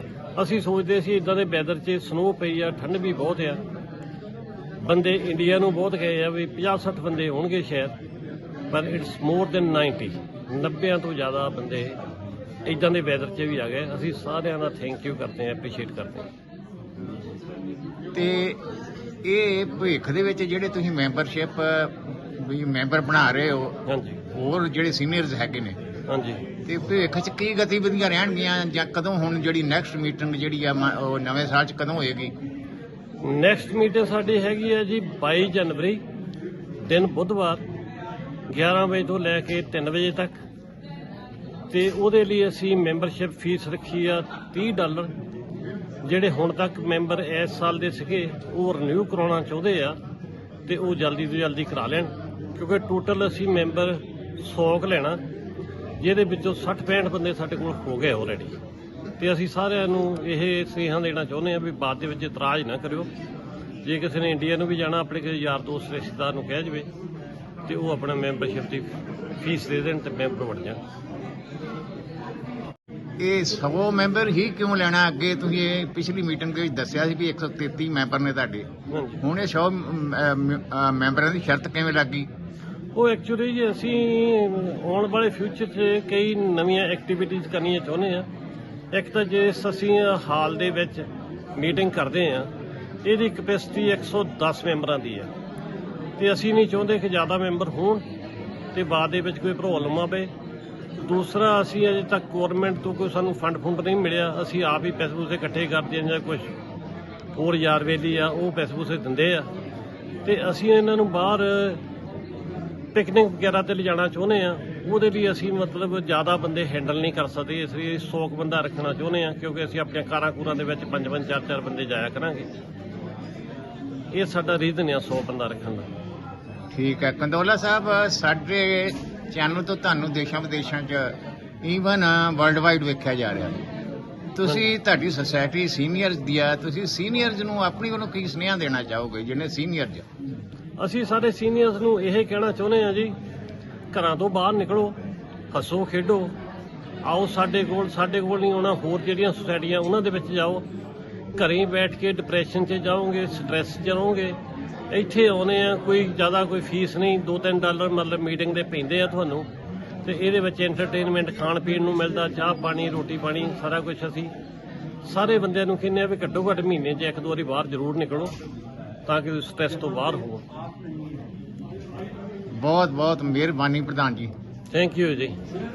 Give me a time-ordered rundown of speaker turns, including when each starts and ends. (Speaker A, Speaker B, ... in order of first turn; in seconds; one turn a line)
Speaker A: 0.4-3.6
Speaker A: 4.8-7.9
Speaker A: 8.7-12.0
Speaker A: 12.7-16.3
Speaker B: 18.1-18.6
Speaker B: 19.2-23.8
Speaker A: 23.9-24.2
Speaker B: 24.3-25.8
Speaker A: 26.1-26.4
Speaker B: 26.6-32.3
Speaker A: 33.2-36.0
Speaker A: 36.8-37.6
Speaker A: 38.5-40.4
Speaker A: 41.7-45.1
Speaker A: 46.0-50.0
Speaker A: 50.7-55.2
Speaker A: 56.0-58.6
Speaker A: 59.2-63.1
Speaker A: 63.8-66.9
Speaker A: 67.7-70.8
Speaker B: 73.2-82.3
Speaker A: 78.9-79.2
Speaker A: 83.0-88.3
Speaker A: 88.9-91.0
Speaker A: 91.6-92.5
Speaker A: 93.0-95.3
Speaker A: 96.2-98.0
Speaker A: 98.7-100.3
Speaker A: 101.0-106.5
Speaker A: 107.3-109.5
Speaker A: 110.2-111.8
Speaker A: 112.9-122.5
Speaker A: 124.1-125.9
Speaker B: 126.7-133.6
Speaker B: 134.3-140.1
Speaker A: 140.8-143.2
Speaker A: 143.9-145.0
Speaker A: 145.5-146.3
Speaker A: 147.0-150.6
Speaker A: 151.3-154.4
Speaker A: 154.9-159.5
Speaker A: 160.1-164.3
Speaker A: 165.0-168.3
Speaker A: 169.1-170.4
Speaker B: 172.5-174.3
Speaker A: 174.7-175.3